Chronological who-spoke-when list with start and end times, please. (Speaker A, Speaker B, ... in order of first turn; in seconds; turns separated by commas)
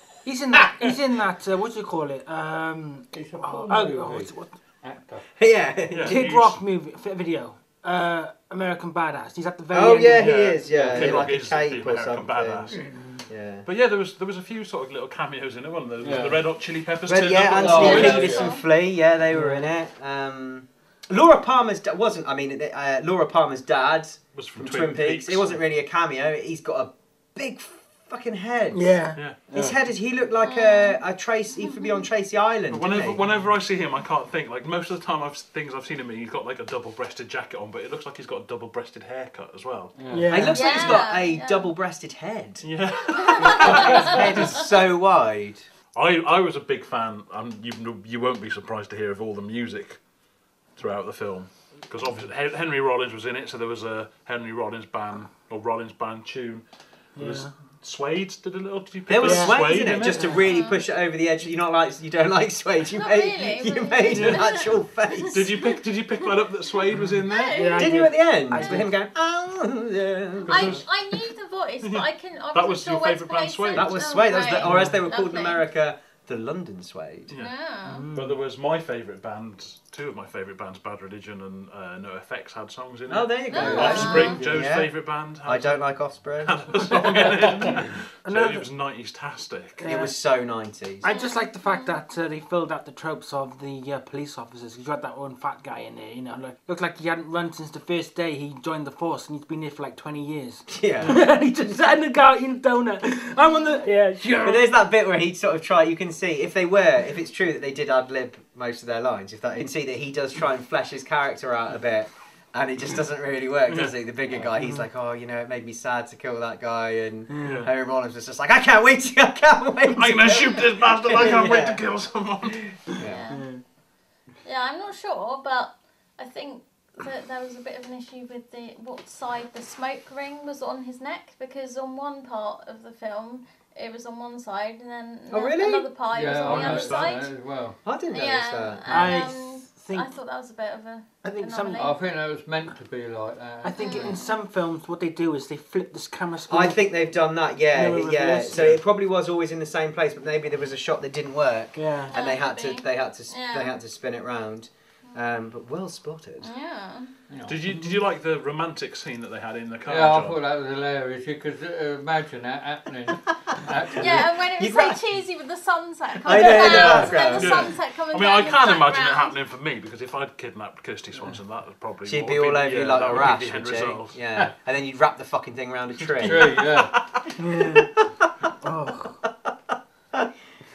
Speaker A: 0.2-4.5, Speaker B: 3.1-5.3, Speaker C: 5.4-6.2, Speaker D: 5.9-6.6, Speaker A: 6.0-10.6, Speaker C: 9.7-12.7, Speaker D: 10.2-12.8, Speaker B: 10.7-11.3, Speaker B: 12.8-13.2, Speaker A: 12.9-13.2, Speaker C: 13.3-13.7, Speaker D: 13.6-18.4, Speaker B: 16.0-16.4, Speaker C: 17.1-28.9, Speaker B: 17.5-18.6, Speaker E: 17.6-18.6, Speaker B: 19.3-19.7, Speaker D: 24.3-25.6, Speaker A: 28.7-29.2, Speaker B: 29.5-29.8, Speaker C: 29.5-33.2, Speaker E: 30.4-31.0, Speaker E: 31.6-32.1, Speaker D: 32.7-39.9, Speaker B: 40.0-40.5, Speaker A: 40.1-40.9, Speaker C: 40.3-42.6, Speaker E: 40.5-41.7, Speaker D: 42.6-44.4, Speaker E: 43.1-44.6, Speaker C: 43.4-45.6, Speaker D: 45.9-50.0, Speaker D: 50.8-56.6, Speaker A: 57.1-57.5, Speaker D: 57.2-60.3, Speaker C: 59.1-65.5, Speaker A: 59.2-60.4, Speaker B: 60.0-60.3, Speaker E: 60.3-60.8, Speaker E: 62.9-66.3, Speaker D: 64.1-64.5, Speaker D: 65.3-67.7, Speaker A: 67.0-68.9, Speaker E: 67.3-68.0, Speaker C: 67.8-70.8, Speaker E: 68.6-68.8, Speaker E: 70.5-75.6, Speaker D: 70.5-70.8, Speaker D: 71.8-73.9, Speaker C: 73.7-77.3, Speaker E: 77.4-78.0, Speaker A: 77.8-78.4, Speaker D: 78.1-89.8, Speaker C: 83.1-84.9, Speaker E: 83.5-84.4, Speaker B: 83.6-84.5, Speaker C: 85.4-87.2, Speaker B: 87.2-87.9, Speaker A: 88.2-88.7, Speaker A: 89.8-90.1, Speaker C: 89.8-91.0, Speaker A: 91.0-104.7, Speaker E: 91.0-92.0, Speaker C: 100.7-101.2, Speaker C: 104.4-121.8, Speaker D: 113.7-113.9, Speaker A: 114.6-114.8, Speaker A: 117.3-117.7, Speaker D: 117.4-117.7, Speaker D: 119.9-122.7, Speaker C: 122.9-123.2, Speaker E: 123.0-123.4, Speaker A: 123.3-123.6, Speaker E: 124.4-137.3, Speaker C: 135.3-135.9, Speaker B: 136.1-137.8, Speaker D: 136.4-137.2, Speaker C: 137.8-139.1, Speaker E: 138.1-142.0, Speaker A: 138.9-140.1, Speaker A: 141.2-141.9, Speaker B: 141.8-144.1, Speaker A: 143.6-147.0, Speaker E: 143.8-144.4, Speaker C: 146.5-156.5, Speaker A: 147.7-148.8, Speaker D: 148.5-148.8, Speaker A: 151.7-152.1, Speaker E: 152.1-153.8, Speaker E: 156.4-157.1, Speaker B: 157.3-157.7, Speaker D: 157.4-160.4, Speaker B: 159.8-164.3, Speaker E: 164.0-169.3, Speaker C: 164.1-165.0, Speaker C: 166.2-167.6, Speaker B: 166.3-167.2, Speaker D: 167.3-174.2, Speaker C: 172.0-176.7, Speaker D: 176.0-176.8, Speaker B: 176.2-176.9, Speaker A: 177.4-177.9, Speaker C: 177.6-178.3, Speaker A: 178.6-179.2